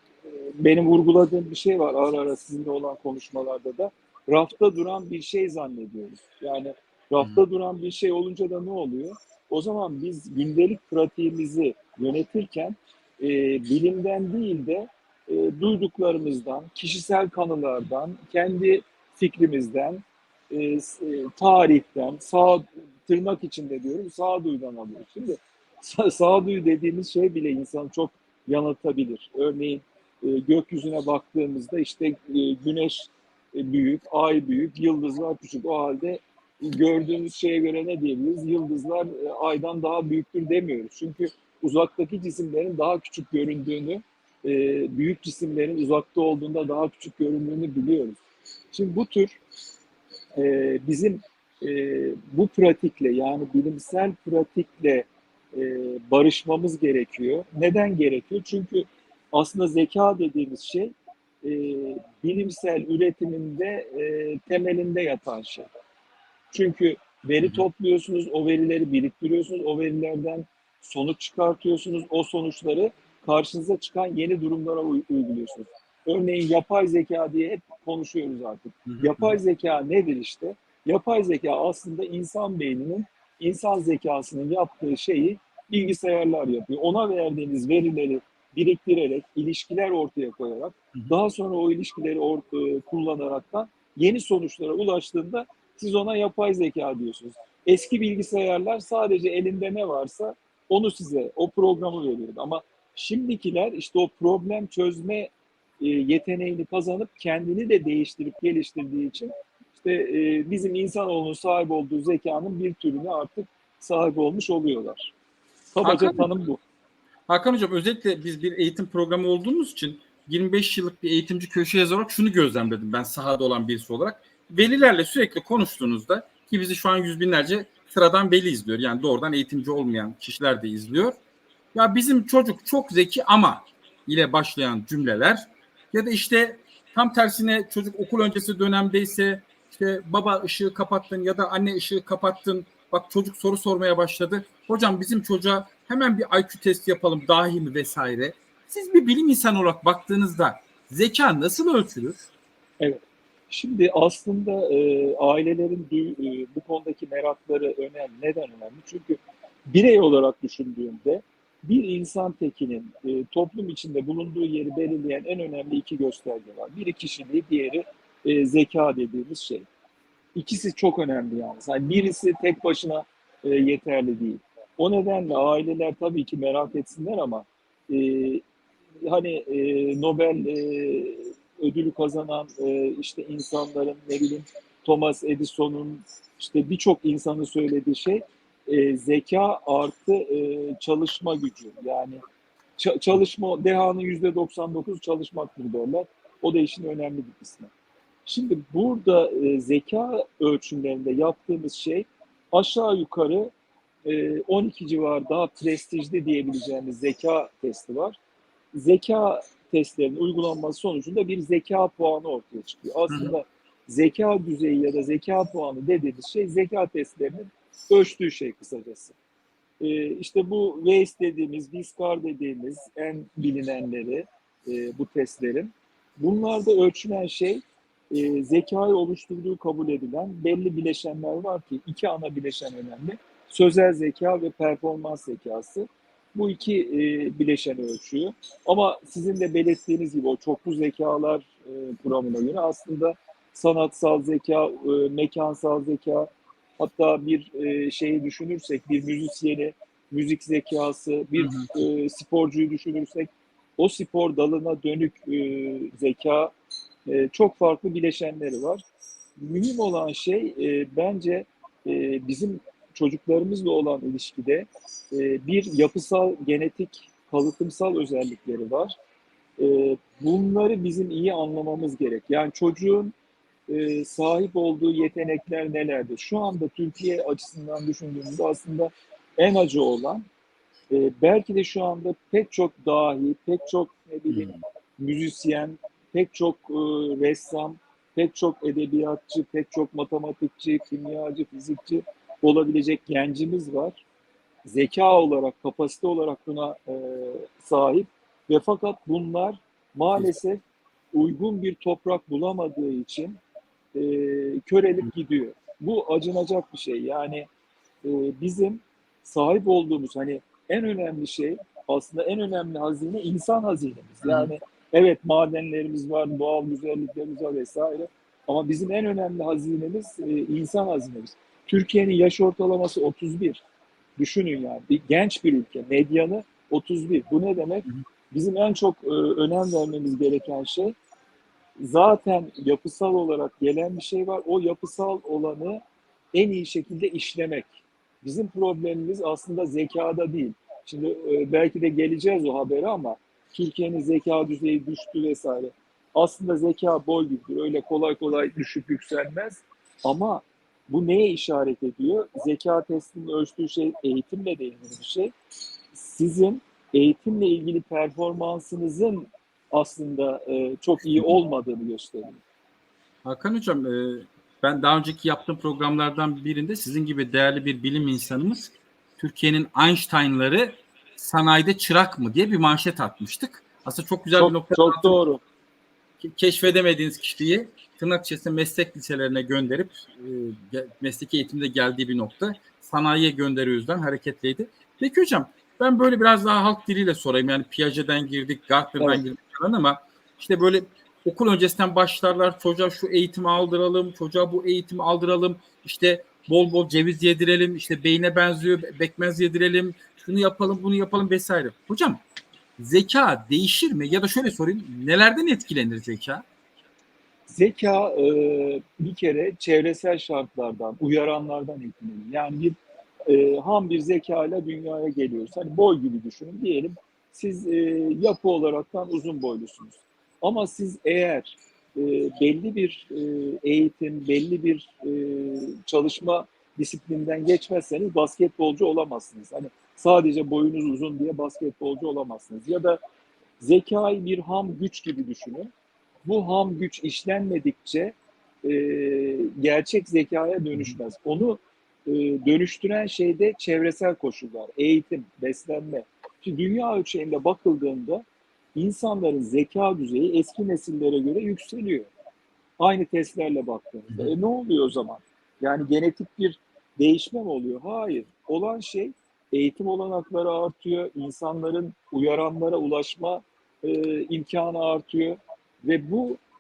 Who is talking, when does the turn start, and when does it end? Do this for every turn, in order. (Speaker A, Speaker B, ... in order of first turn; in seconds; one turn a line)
Speaker A: 0.3-48.2
Speaker A: 48.7-49.4
Speaker A: 50.4-65.7
Speaker A: 66.5-115.1
Speaker B: 78.9-79.4
Speaker A: 115.7-116.6
Speaker B: 115.8-116.3
Speaker B: 117.3-131.2
Speaker B: 131.7-152.2
Speaker A: 152.8-169.7
Speaker A: 170.3-178.4
Speaker A: 179.0-192.2
Speaker A: 192.8-197.7
Speaker A: 198.3-203.5
Speaker A: 204.0-208.2
Speaker A: 208.7-219.2
Speaker B: 213.1-213.3
Speaker A: 219.8-256.5
Speaker B: 251.4-251.7
Speaker A: 257.1-258.8
Speaker A: 259.4-269.0
Speaker A: 269.6-273.2
Speaker A: 273.7-280.2
Speaker A: 280.9-294.0
Speaker B: 284.3-284.6
Speaker A: 294.6-303.4
Speaker A: 303.9-307.5
Speaker A: 308.0-323.6
Speaker B: 314.2-314.5
Speaker A: 324.2-331.0
Speaker A: 331.8-335.8
Speaker A: 336.3-355.4
Speaker A: 355.9-362.4
Speaker B: 363.2-375.2
Speaker A: 374.4-375.4
Speaker B: 376.2-402.2
Speaker B: 402.8-406.4
Speaker A: 407.5-433.0
Speaker A: 433.6-435.7
Speaker A: 436.2-452.1
Speaker A: 452.8-466.4